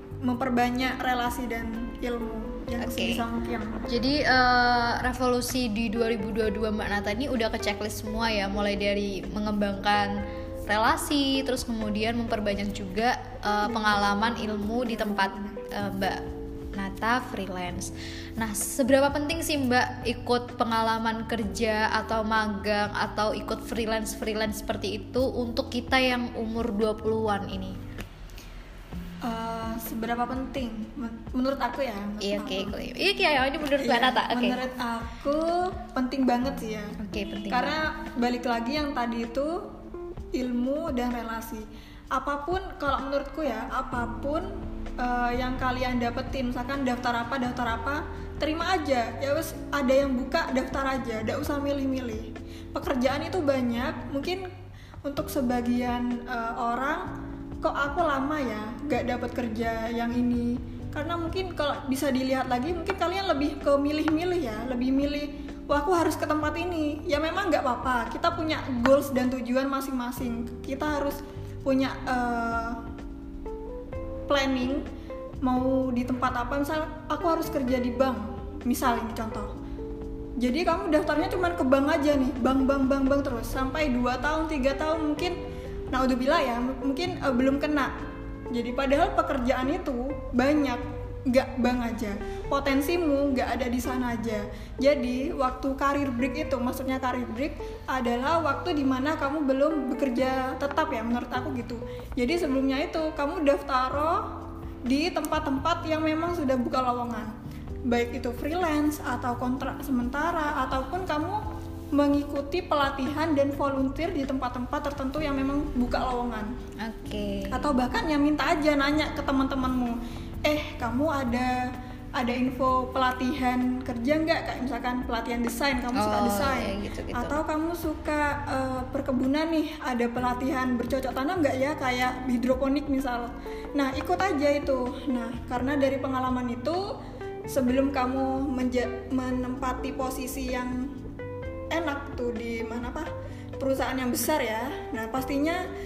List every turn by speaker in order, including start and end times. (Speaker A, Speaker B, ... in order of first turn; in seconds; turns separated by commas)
Speaker A: 0.2-3.9, Speaker B: 2.8-3.2, Speaker B: 3.9-10.1, Speaker B: 10.7-16.2, Speaker A: 13.6-15.6, Speaker B: 16.8-27.8, Speaker A: 29.2-32.8, Speaker B: 32.2-34.6, Speaker A: 33.8-37.0, Speaker B: 37.0-37.7, Speaker A: 37.5-39.6, Speaker A: 40.3-54.4, Speaker A: 55.1-57.1, Speaker A: 57.6-72.8, Speaker A: 74.3-74.8, Speaker A: 75.4-79.5, Speaker A: 80.4-85.4, Speaker A: 85.9-87.9, Speaker A: 88.5-107.3, Speaker A: 107.9-111.4, Speaker A: 111.9-116.5, Speaker B: 116.8-117.7, Speaker A: 117.5-121.6, Speaker A: 122.2-136.8, Speaker B: 126.0-127.3, Speaker A: 137.5-140.9, Speaker A: 141.7-145.6